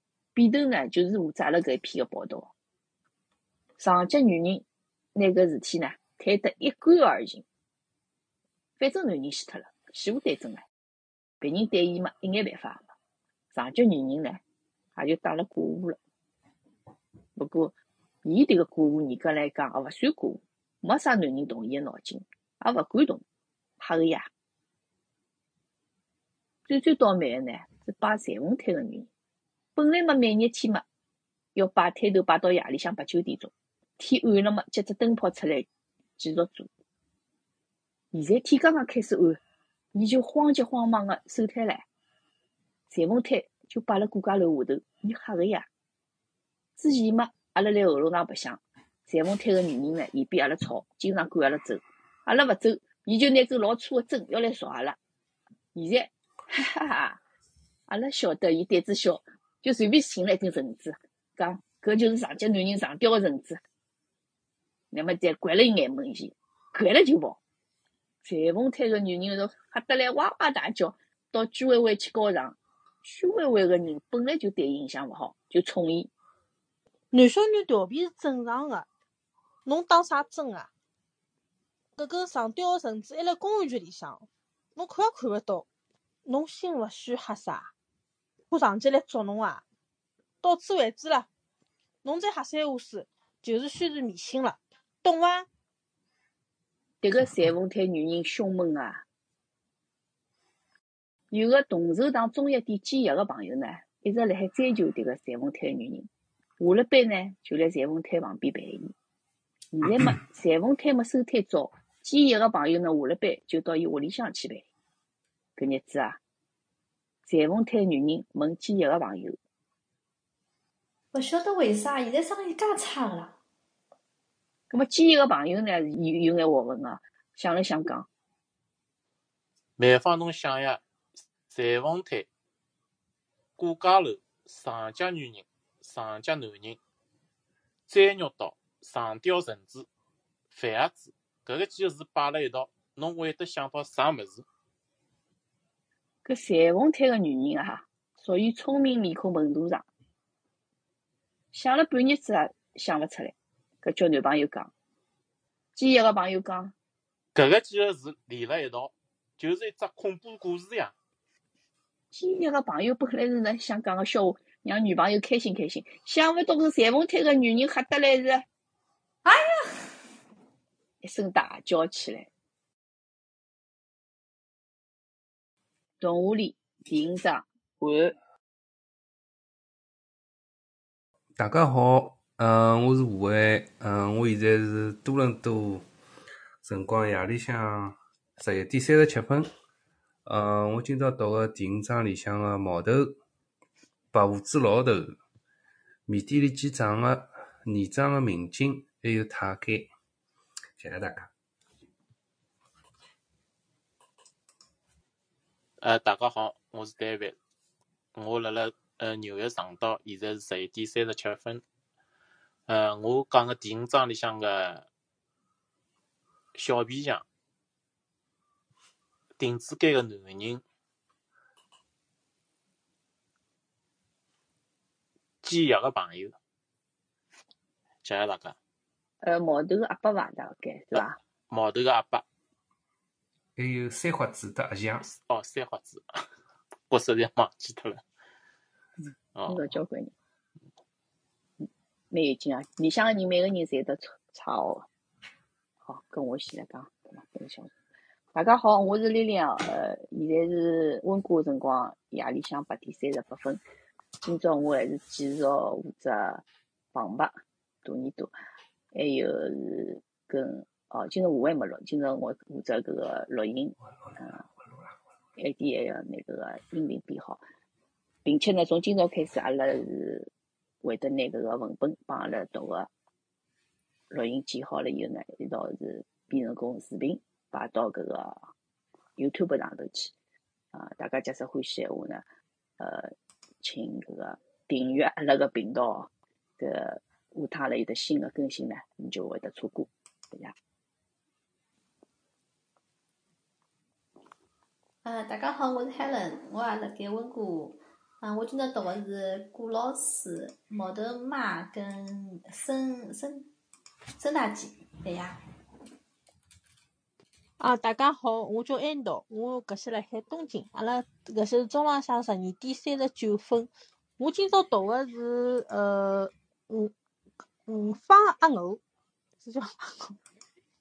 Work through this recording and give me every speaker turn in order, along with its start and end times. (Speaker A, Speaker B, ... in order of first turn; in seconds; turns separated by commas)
Speaker A: 0.3-2.5, Speaker A: 3.8-7.5, Speaker A: 8.8-10.7, Speaker A: 11.4-12.9, Speaker A: 13.5-14.4, Speaker A: 15.0-16.0, Speaker A: 17.4-23.2, Speaker A: 23.8-24.3, Speaker A: 26.7-29.1, Speaker A: 29.8-30.9, Speaker A: 31.6-36.7, Speaker A: 38.1-39.4, Speaker A: 39.9-41.9, Speaker A: 42.9-45.7, Speaker A: 46.8-55.0, Speaker A: 55.8-57.2, Speaker A: 57.9-63.6, Speaker A: 64.9-67.4, Speaker A: 68.2-76.1, Speaker B: 77.1-78.9, Speaker B: 79.7-80.7, Speaker B: 82.0-85.7, Speaker B: 86.2-87.7, Speaker B: 88.5-89.6, Speaker B: 90.4-91.3, Speaker B: 92.0-95.5, Speaker A: 97.0-99.0, Speaker A: 101.3-106.1, Speaker A: 106.6-108.9, Speaker A: 109.7-114.7, Speaker A: 115.6-116.2, Speaker A: 117.2-119.4, Speaker C: 121.1-123.4, Speaker A: 124.7-128.1, Speaker D: 129.8-130.8, Speaker D: 131.5-132.3, Speaker D: 133.6-136.8, Speaker D: 137.9-139.9, Speaker D: 140.5-144.4, Speaker A: 146.2-149.9, Speaker A: 151.5-154.7, Speaker A: 155.8-156.7, Speaker D: 157.3-160.9, Speaker A: 162.1-168.5, Speaker C: 169.2-169.8, Speaker A: 171.0-172.3, Speaker A: 176.0-178.2, Speaker E: 181.4-185.8, Speaker E: 186.6-189.5, Speaker E: 190.2-193.2, Speaker E: 194.1-195.2, Speaker E: 196.1-199.9, Speaker E: 200.8-201.3, Speaker D: 205.8-207.4, Speaker D: 208.2-211.6, Speaker D: 212.7-214.9, Speaker D: 216.6-217.2, Speaker D: 219.4-220.6, Speaker D: 225.4-226.4, Speaker D: 228.0-228.6, Speaker A: 229.2-231.2, Speaker D: 231.5-232.2, Speaker E: 233.6-235.1, Speaker D: 235.0-236.1, Speaker D: 236.9-238.0, Speaker D: 239.4-239.6, Speaker A: 239.5-240.1, Speaker A: 241.6-244.9, Speaker A: 245.9-247.7, Speaker A: 248.3-253.6, Speaker A: 254.2-258.3, Speaker A: 258.9-264.4, Speaker A: 265.4-267.4, Speaker A: 268.2-270.3, Speaker A: 270.8-272.9, Speaker A: 274.1-278.4, Speaker A: 279.2-280.1, Speaker A: 280.7-282.2, Speaker A: 282.8-283.1, Speaker A: 283.6-290.6, Speaker C: 295.0-303.5, Speaker C: 304.2-305.4, Speaker B: 307.6-316.9, Speaker B: 317.7-318.8, Speaker B: 319.4-320.2